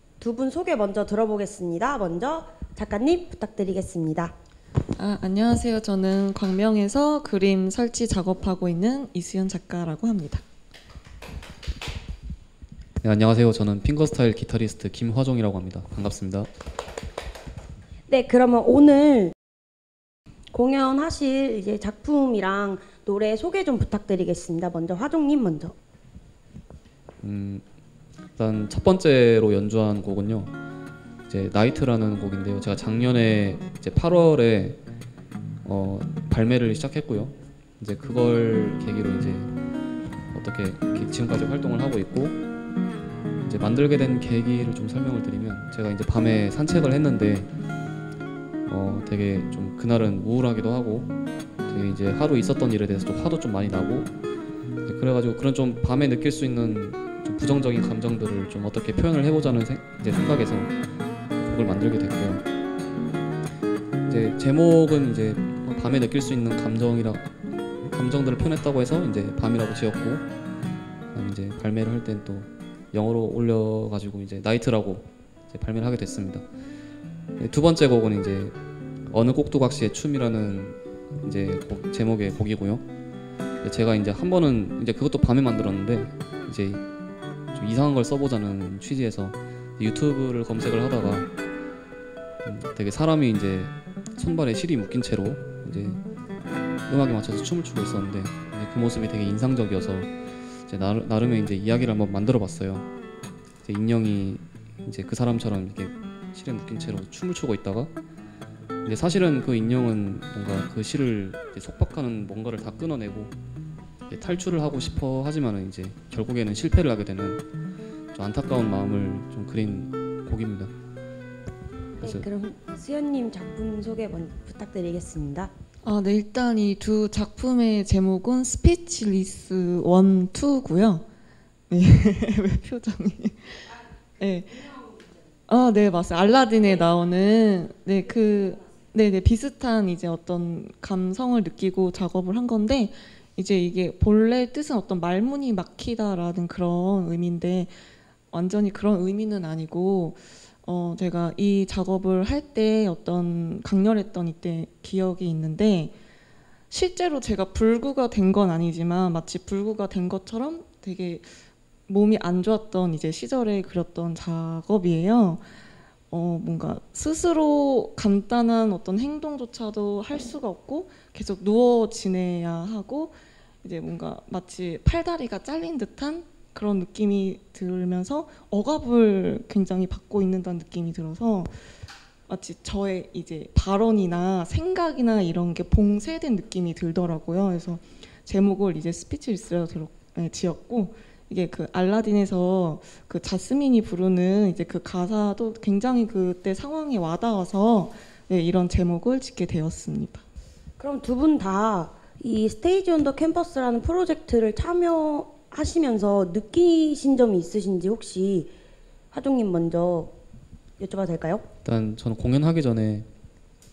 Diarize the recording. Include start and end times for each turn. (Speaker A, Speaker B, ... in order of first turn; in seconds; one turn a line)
Speaker A: 0.2-4.3
Speaker B: 5.0-10.4
Speaker C: 13.0-16.5
Speaker A: 18.1-19.3
Speaker A: 20.5-25.8
Speaker C: 27.2-27.6
Speaker C: 28.4-30.5
Speaker C: 31.3-34.8
Speaker C: 35.6-39.5
Speaker C: 40.3-42.4
Speaker C: 43.4-47.5
Speaker C: 48.7-51.1
Speaker C: 51.6-54.1
Speaker C: 54.9-60.7
Speaker C: 61.4-62.4
Speaker C: 64.1-67.3
Speaker C: 67.9-70.3
Speaker C: 71.1-76.4
Speaker C: 77.4-78.5
Speaker C: 79.1-82.8
Speaker C: 83.6-86.8
Speaker C: 87.5-91.3
Speaker C: 92.4-96.0
Speaker C: 96.9-100.1
Speaker C: 100.7-102.9
Speaker C: 103.6-107.9
Speaker C: 108.8-113.3
Speaker C: 114.1-117.4
Speaker C: 118.1-120.7
Speaker A: 122.0-125.5
Speaker B: 125.8-131.0
Speaker B: 131.7-134.9
Speaker B: 135.5-147.7
Speaker B: 148.3-155.9
Speaker B: 156.7-161.3
Speaker B: 161.9-165.4
Speaker B: 166.1-181.6
Speaker B: 182.3-200.2
Speaker A: 200.8-208.5
Speaker A: 209.1-210.2
Speaker A: 210.8-211.4
Speaker C: 211.6-213.1